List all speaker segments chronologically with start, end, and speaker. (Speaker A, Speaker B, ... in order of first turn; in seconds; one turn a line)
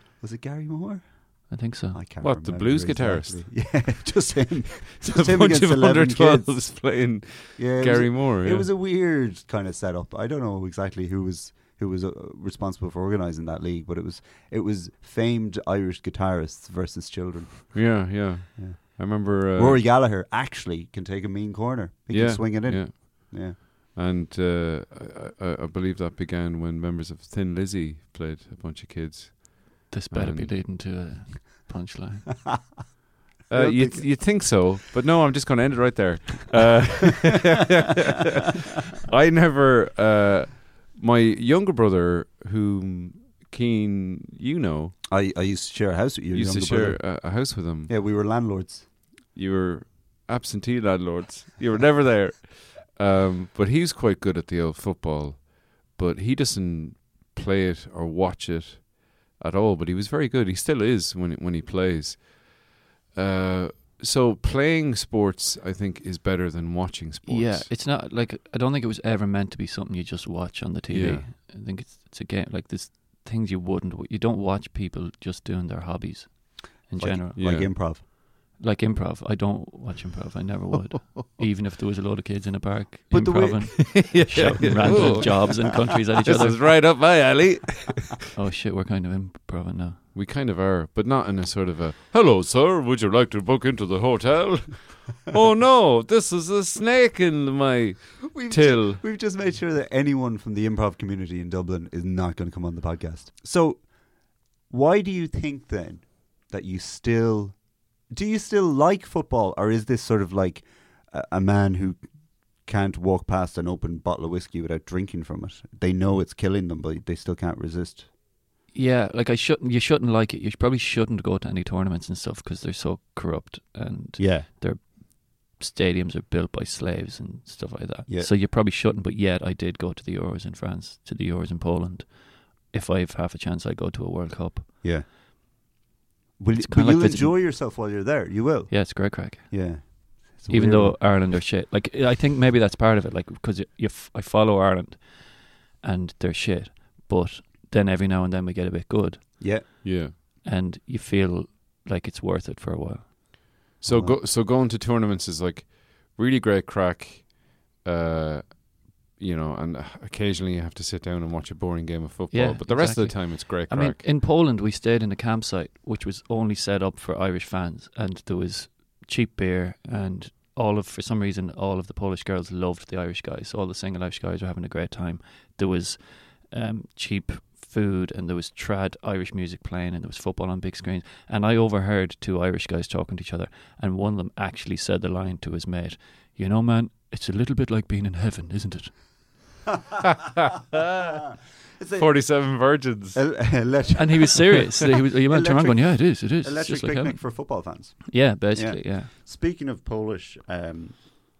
Speaker A: 0.2-6.9
Speaker B: 1.5-2.0
Speaker C: 2.2-3.9
Speaker C: 5.0-8.7
Speaker A: 7.5-23.6
Speaker C: 17.7-19.8
Speaker C: 22.1-30.6
Speaker B: 29.9-32.5
Speaker C: 33.5-45.0
Speaker A: 33.5-34.2
Speaker A: 45.1-48.9
Speaker C: 46.3-47.9
Speaker C: 49.3-67.7
Speaker B: 67.2-77.8
Speaker C: 70.9-71.3
Speaker A: 77.0-78.0
Speaker C: 77.4-77.7
Speaker B: 78.5-86.8
Speaker A: 83.1-85.5
Speaker C: 83.8-88.2
Speaker B: 88.3-90.0
Speaker C: 90.1-99.0
Speaker A: 98.2-104.1
Speaker A: 104.6-112.0
Speaker A: 112.6-118.1
Speaker B: 118.7-134.8
Speaker A: 124.2-124.5
Speaker A: 128.1-128.3
Speaker A: 134.8-135.6
Speaker A: 136.4-141.3
Speaker B: 136.6-137.5
Speaker B: 138.7-153.4
Speaker A: 149.4-149.7
Speaker C: 149.8-150.1
Speaker C: 153.8-164.0
Speaker A: 153.8-154.2
Speaker B: 162.3-189.0
Speaker C: 190.6-191.2
Speaker A: 191.8-192.4
Speaker C: 191.9-193.4
Speaker A: 193.1-201.2
Speaker B: 193.9-197.5
Speaker B: 198.1-199.1